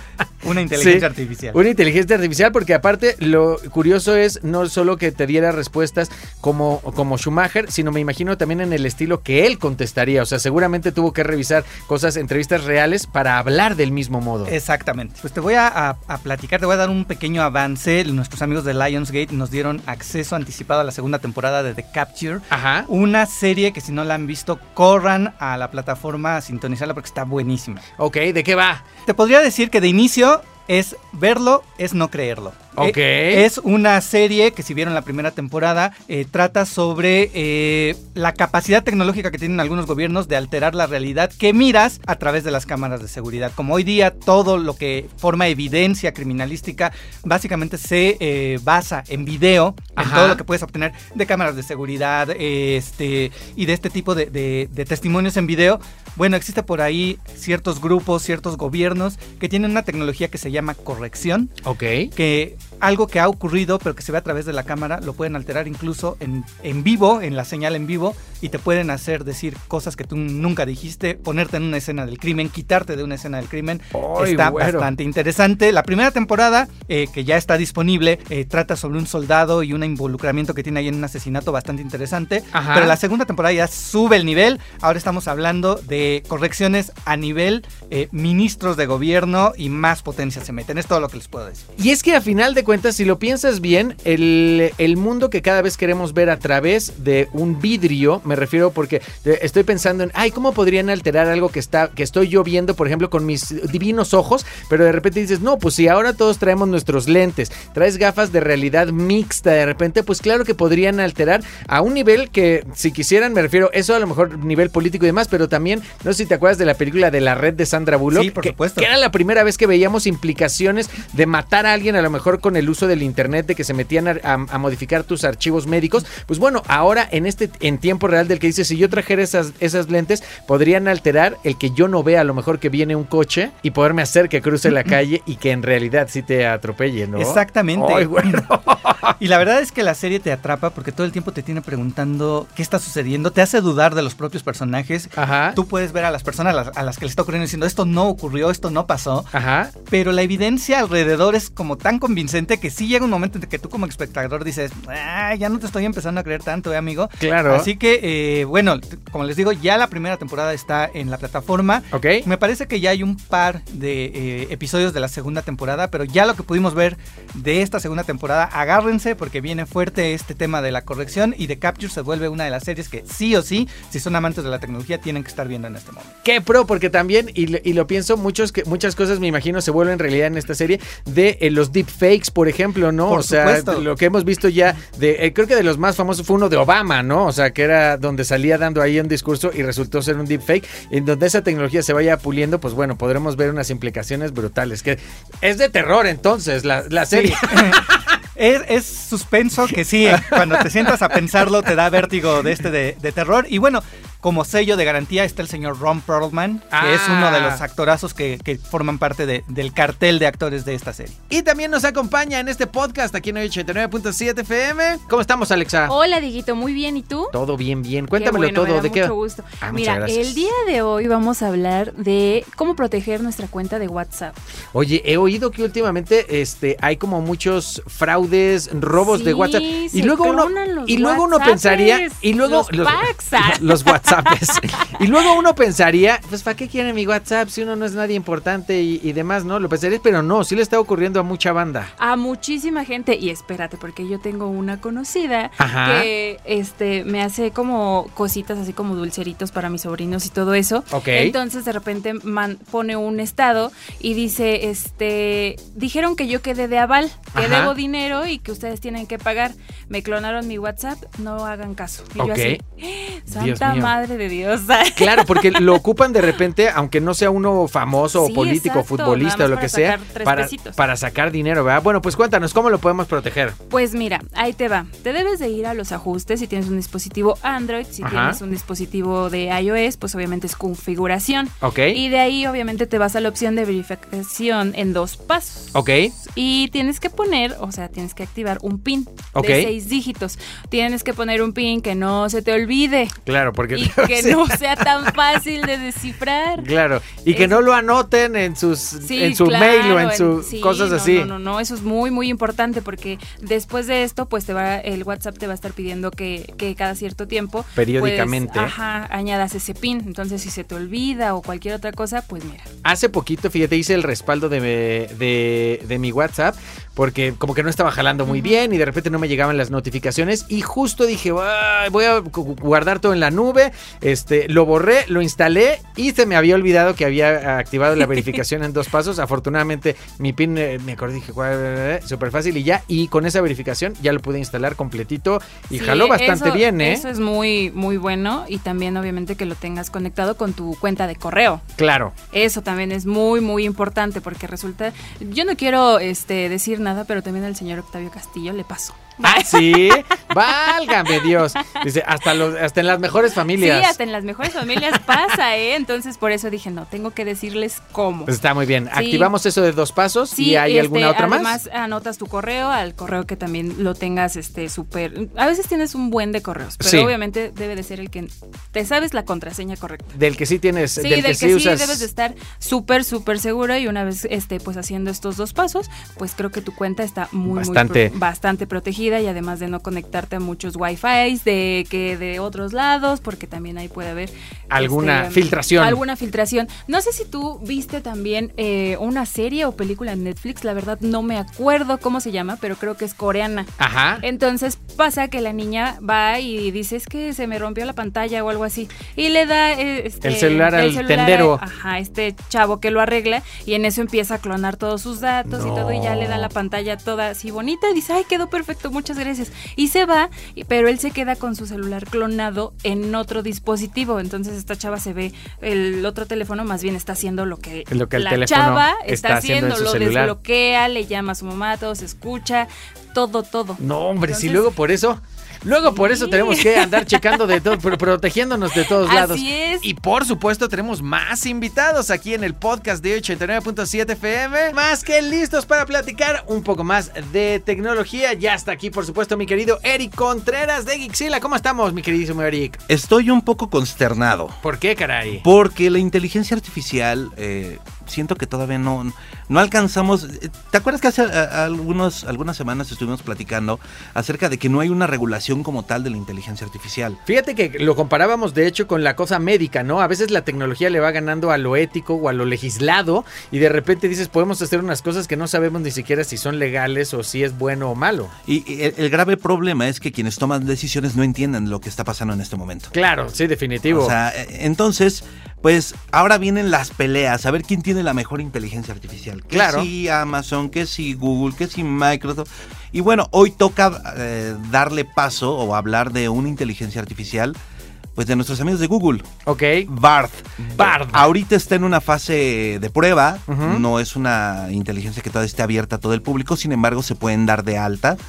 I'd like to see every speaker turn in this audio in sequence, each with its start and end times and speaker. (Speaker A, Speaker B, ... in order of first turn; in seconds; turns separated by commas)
Speaker A: 0.4-1.6, Speaker B: 0.8-14.5, Speaker A: 14.5-27.9, Speaker B: 22.5-22.9, Speaker B: 28.0-28.8, Speaker A: 29.1-61.5, Speaker B: 32.8-33.5, Speaker B: 50.0-50.4, Speaker B: 61.6-62.1, Speaker A: 62.1-91.7, Speaker B: 73.9-74.9, Speaker B: 82.5-83.0, Speaker B: 91.8-139.2, Speaker A: 118.1-118.9, Speaker A: 137.2-138.5, Speaker A: 139.2-149.3, Speaker B: 145.2-145.6, Speaker B: 149.3-149.7, Speaker A: 149.9-176.2, Speaker B: 157.2-157.7, Speaker B: 161.9-162.3, Speaker B: 176.2-198.1, Speaker A: 183.1-183.9, Speaker A: 197.1-211.2, Speaker B: 200.1-200.9, Speaker B: 206.7-207.6, Speaker B: 211.3-215.9, Speaker C: 215.9-217.3, Speaker B: 217.3-220.3, Speaker C: 218.2-224.4, Speaker B: 224.7-241.9, Speaker C: 229.0-235.0, Speaker C: 242.0-265.8, Speaker B: 245.6-246.1, Speaker B: 250.9-251.3, Speaker B: 257.4-257.7, Speaker B: 262.2-262.6, Speaker B: 263.3-263.9, Speaker B: 265.0-273.6, Speaker C: 268.1-270.8, Speaker C: 273.7-293.2, Speaker B: 278.0-278.4, Speaker B: 281.6-282.0, Speaker B: 285.7-286.1, Speaker B: 289.4-289.7, Speaker B: 293.2-295.1, Speaker C: 293.7-296.7, Speaker B: 296.6-301.3, Speaker C: 297.3-297.6, Speaker C: 299.0-312.7, Speaker B: 307.8-308.7, Speaker B: 312.8-337.1, Speaker C: 318.3-318.6, Speaker C: 328.0-328.4, Speaker C: 335.7-341.6, Speaker B: 341.8-342.1, Speaker C: 342.3-350.1, Speaker B: 349.2-354.0, Speaker C: 350.7-351.8, Speaker C: 353.6-358.3, Speaker B: 358.3-361.6, Speaker C: 358.9-359.3, Speaker C: 360.3-370.1, Speaker B: 366.8-367.1, Speaker B: 370.1-372.0, Speaker C: 371.0-424.7, Speaker B: 377.5-378.1, Speaker B: 384.7-386.0, Speaker B: 393.8-394.2, Speaker B: 400.2-401.6, Speaker B: 405.5-406.5, Speaker B: 417.9-420.3, Speaker B: 423.8-442.8, Speaker C: 425.9-427.6, Speaker C: 428.9-429.9, Speaker D: 442.9-444.6, Speaker B: 444.6-445.4, Speaker D: 445.4-457.2, Speaker B: 457.3-468.3, Speaker D: 468.5-472.9, Speaker B: 472.9-474.1, Speaker D: 473.9-487.6, Speaker B: 479.5-479.9, Speaker D: 488.1-489.3, Speaker B: 489.5-489.9, Speaker D: 489.9-498.2, Speaker B: 490.8-491.3, Speaker B: 493.5-493.8